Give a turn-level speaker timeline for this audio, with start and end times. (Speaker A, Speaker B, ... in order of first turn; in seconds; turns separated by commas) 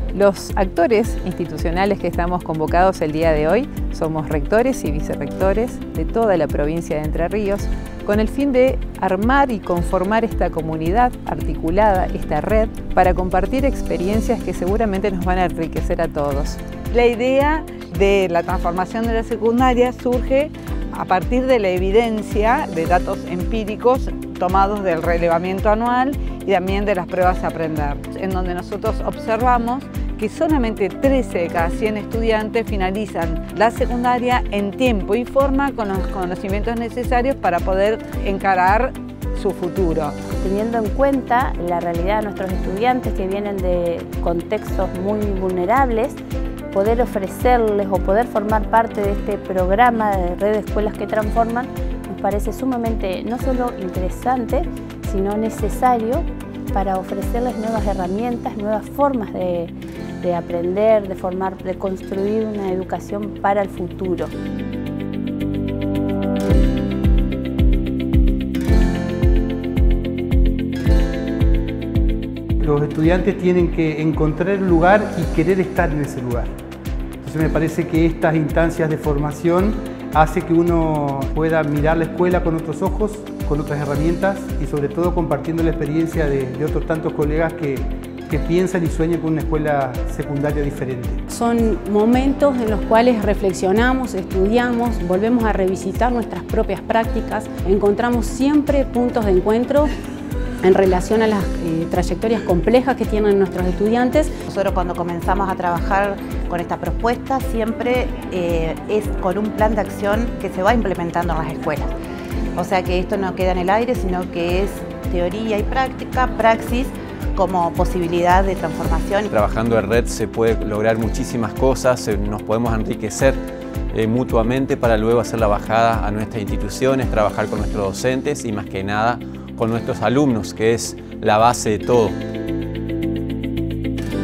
Speaker A: 0.1-16.6, Speaker B: 16.9-40.1, Speaker C: 40.4-46.2, Speaker C: 46.7-64.3, Speaker D: 72.6-76.5, Speaker D: 77.2-91.2, Speaker E: 91.3-99.9, Speaker E: 100.6-104.3, Speaker F: 104.5-111.9, Speaker F: 112.5-119.3, Speaker G: 119.3-123.4, Speaker G: 123.9-132.2